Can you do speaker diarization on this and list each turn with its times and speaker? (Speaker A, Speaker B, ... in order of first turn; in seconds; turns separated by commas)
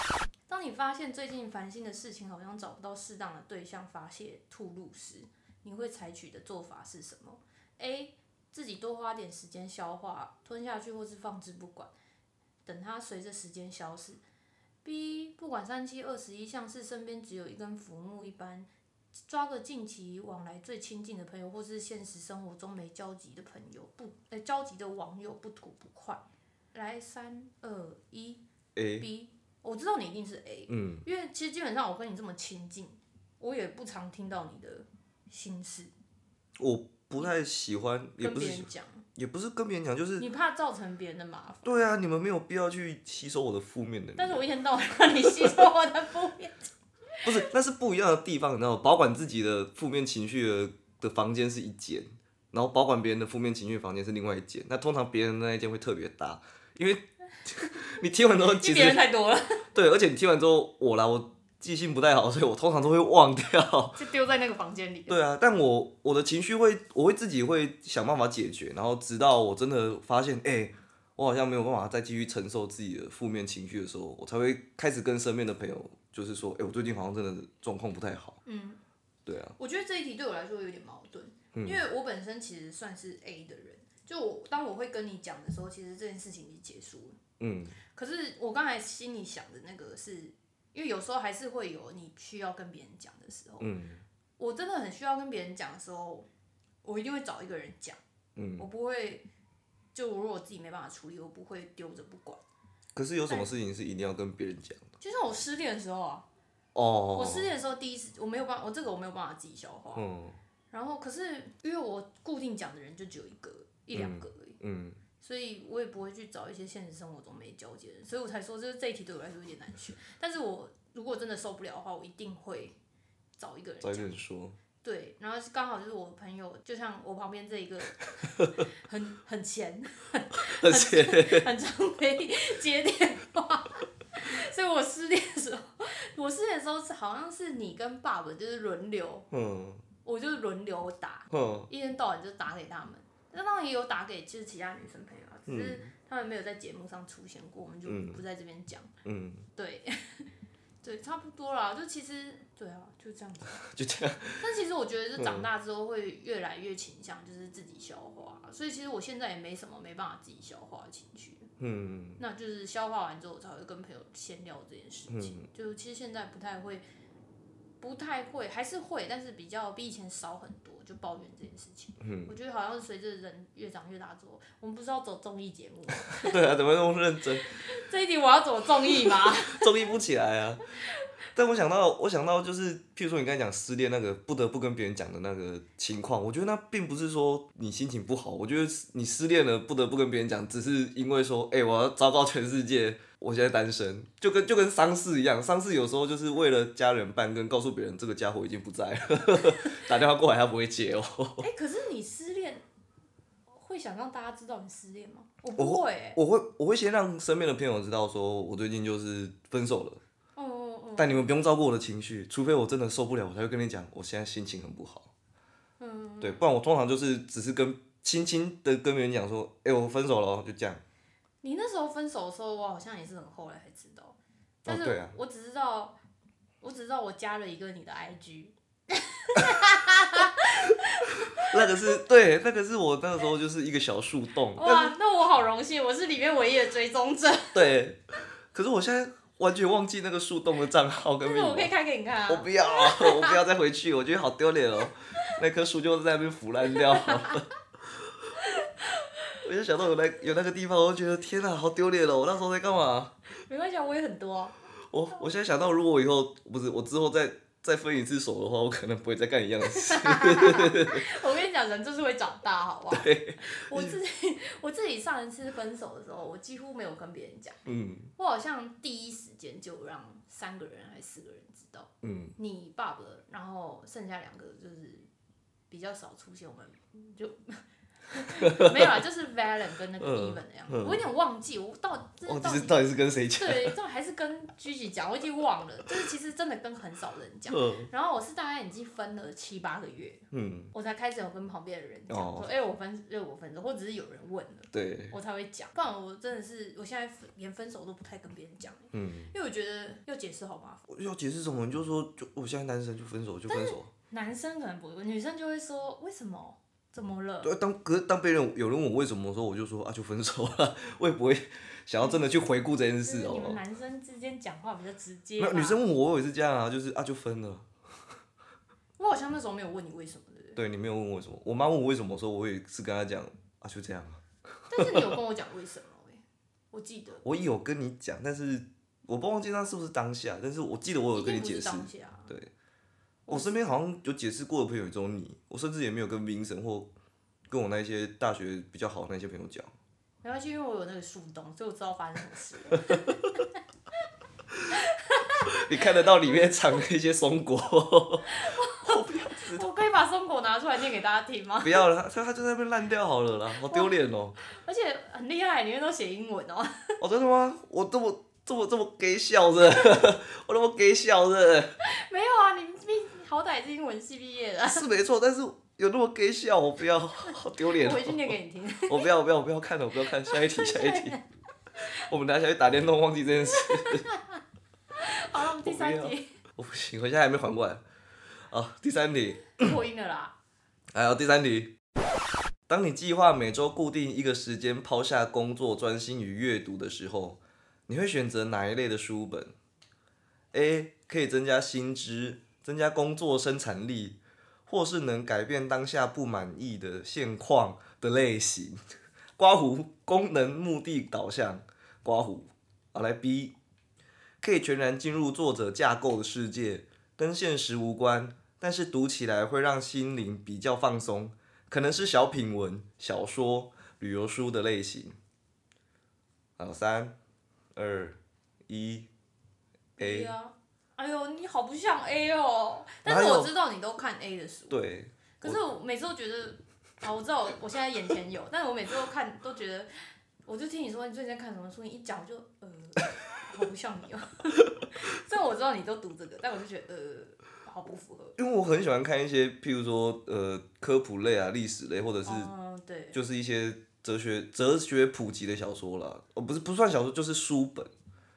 Speaker A: 0.5-11.9, Speaker A: 12.7-14.2, Speaker A: 14.8-18.7, Speaker A: 19.3-26.2, Speaker A: 26.7-28.4, Speaker B: 28.8-29.1, Speaker A: 29.0-35.9, Speaker B: 30.7-31.0, Speaker B: 36.6-40.3, Speaker A: 38.2-39.0, Speaker A: 40.2-41.7, Speaker B: 41.6-44.5, Speaker A: 44.2-46.7, Speaker B: 47.2-59.0, Speaker A: 58.4-59.6, Speaker B: 59.7-64.0, Speaker A: 64.0-65.2, Speaker B: 65.1-78.4, Speaker A: 78.5-78.8, Speaker B: 79.3-79.5, Speaker A: 79.6-87.2, Speaker B: 81.5-81.8, Speaker B: 87.4-87.8, Speaker A: 87.9-93.7, Speaker B: 93.6-94.0, Speaker A: 94.4-96.3, Speaker A: 96.8-98.0, Speaker B: 98.4-98.7, Speaker A: 98.6-99.2, Speaker A: 99.9-102.4, Speaker B: 103.0-104.9, Speaker A: 105.0-106.3, Speaker B: 106.8-107.5, Speaker A: 107.1-110.1, Speaker B: 110.0-110.4, Speaker A: 110.7-114.6, Speaker B: 113.9-115.0, Speaker A: 115.2-122.8, Speaker A: 123.4-124.1, Speaker B: 123.8-124.6, Speaker A: 124.8-139.3, Speaker B: 130.6-131.5, Speaker B: 139.3-139.8, Speaker A: 140.0-148.9, Speaker B: 141.3-141.7, Speaker B: 145.5-145.9, Speaker B: 147.9-148.2, Speaker B: 149.1-149.5, Speaker A: 149.6-150.3, Speaker A: 150.8-153.6, Speaker B: 153.6-154.4, Speaker A: 154.4-161.5, Speaker B: 155.2-155.5, Speaker B: 161.6-162.2, Speaker A: 162.2-166.8, Speaker B: 165.1-165.5, Speaker A: 167.8-176.4, Speaker B: 172.0-172.3, Speaker B: 176.1-177.5, Speaker A: 177.4-179.7, Speaker B: 179.1-180.7, Speaker B: 181.3-201.5, Speaker A: 201.4-202.7, Speaker A: 203.5-206.2, Speaker B: 205.6-210.0, Speaker A: 210.4-211.2, Speaker B: 211.0-215.1, Speaker A: 215.8-216.4, Speaker B: 216.2-220.8, Speaker A: 221.4-226.0, Speaker B: 224.7-225.2, Speaker A: 226.6-232.0, Speaker B: 231.4-234.9, Speaker A: 234.6-237.7, Speaker B: 237.5-241.7, Speaker A: 241.2-243.4, Speaker B: 242.3-247.4, Speaker A: 246.9-247.4, Speaker A: 248.4-248.8, Speaker B: 249.4-253.1, Speaker A: 253.4-254.6, Speaker B: 254.9-261.1, Speaker A: 259.7-267.6, Speaker B: 262.9-264.0, Speaker B: 267.7-268.1, Speaker A: 268.2-275.1, Speaker B: 272.0-272.3, Speaker A: 275.7-282.8, Speaker B: 278.4-279.0, Speaker B: 280.0-281.0, Speaker B: 282.3-283.8, Speaker A: 283.4-300.8, Speaker B: 287.5-287.9, Speaker B: 290.3-290.7, Speaker B: 292.1-292.5, Speaker B: 294.7-295.1, Speaker B: 298.9-299.3, Speaker B: 300.9-303.9, Speaker A: 303.5-307.5, Speaker B: 307.4-313.6, Speaker A: 313.0-315.8, Speaker B: 315.4-317.7, Speaker A: 319.0-320.6, Speaker B: 320.6-324.2, Speaker A: 324.7-327.2, Speaker B: 324.8-325.1, Speaker B: 327.2-332.5, Speaker A: 331.1-332.3, Speaker A: 333.3-333.8, Speaker B: 333.3-336.9, Speaker B: 337.5-339.7, Speaker A: 340.2-343.5, Speaker A: 344.7-345.9, Speaker B: 345.5-349.6, Speaker A: 348.3-351.9, Speaker B: 351.6-354.4, Speaker A: 353.6-357.0, Speaker B: 357.0-361.7, Speaker A: 361.8-364.9, Speaker B: 364.7-368.3, Speaker A: 367.8-369.1, Speaker B: 368.9-371.2, Speaker A: 370.3-371.2, Speaker B: 371.9-374.1, Speaker A: 373.5-374.4, Speaker A: 374.9-376.3, Speaker B: 375.6-377.8, Speaker B: 378.5-379.8, Speaker A: 379.5-380.4, Speaker B: 380.9-381.7, Speaker B: 382.7-389.5, Speaker B: 390.5-398.8, Speaker B: 399.4-403.6, Speaker B: 404.4-415.2, Speaker B: 416.6-417.1, Speaker B: 417.8-419.1, Speaker B: 420.0-420.3, Speaker A: 420.0-424.8, Speaker B: 423.1-423.5, Speaker B: 424.7-425.6, Speaker A: 425.4-429.9, Speaker A: 430.5-438.4, Speaker B: 438.4-442.5, Speaker A: 442.2-443.2, Speaker B: 443.1-447.9